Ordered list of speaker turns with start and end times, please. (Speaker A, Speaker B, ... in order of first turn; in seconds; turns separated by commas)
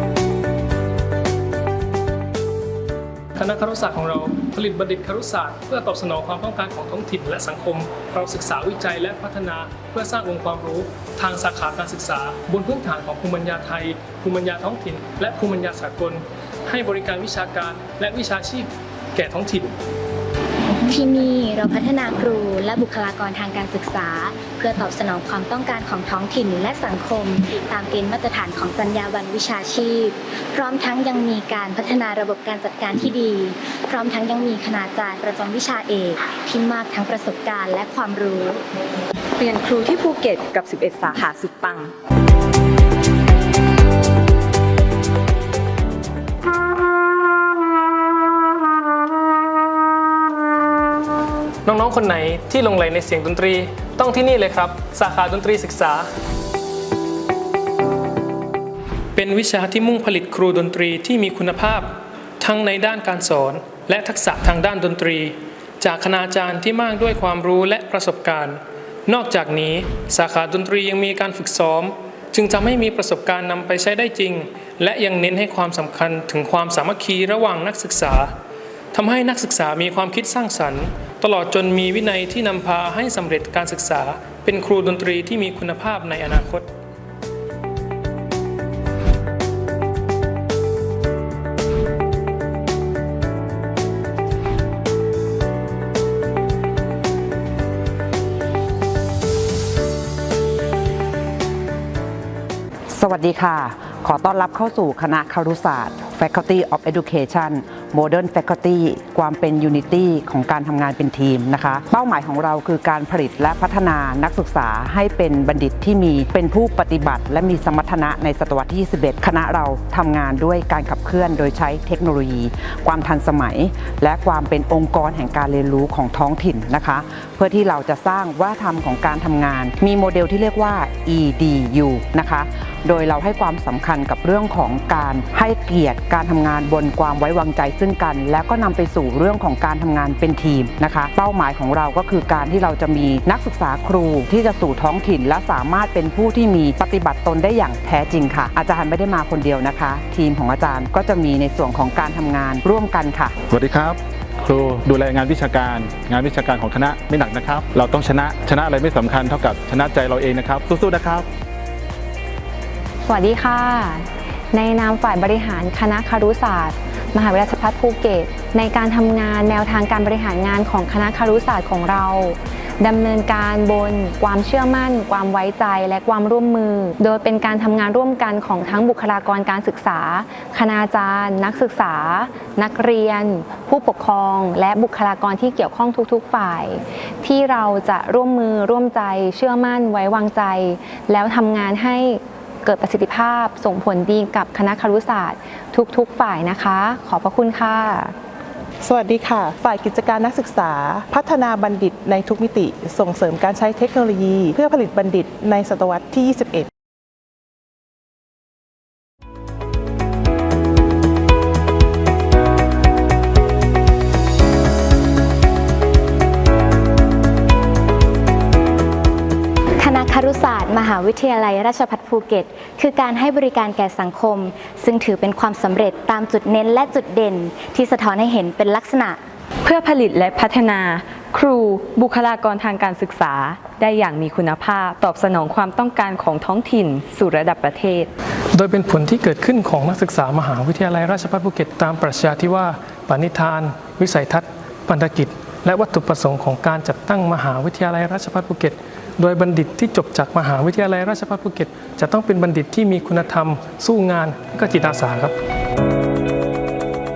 Speaker A: 3.4-19.8, Speaker B: 20.6-38.6, Speaker C: 39.4-41.9, Speaker A: 51.7-56.1, Speaker A: 59.1-78.3, Speaker A: 78.9-86.7, Speaker D: 102.9-153.3, Speaker E: 153.5-161.3, Speaker F: 163.1-198.2, Speaker G: 198.8-206.7, Speaker B: 219.8-229.2, Speaker C: 229.6-238.1, Speaker A: 238.5-255.3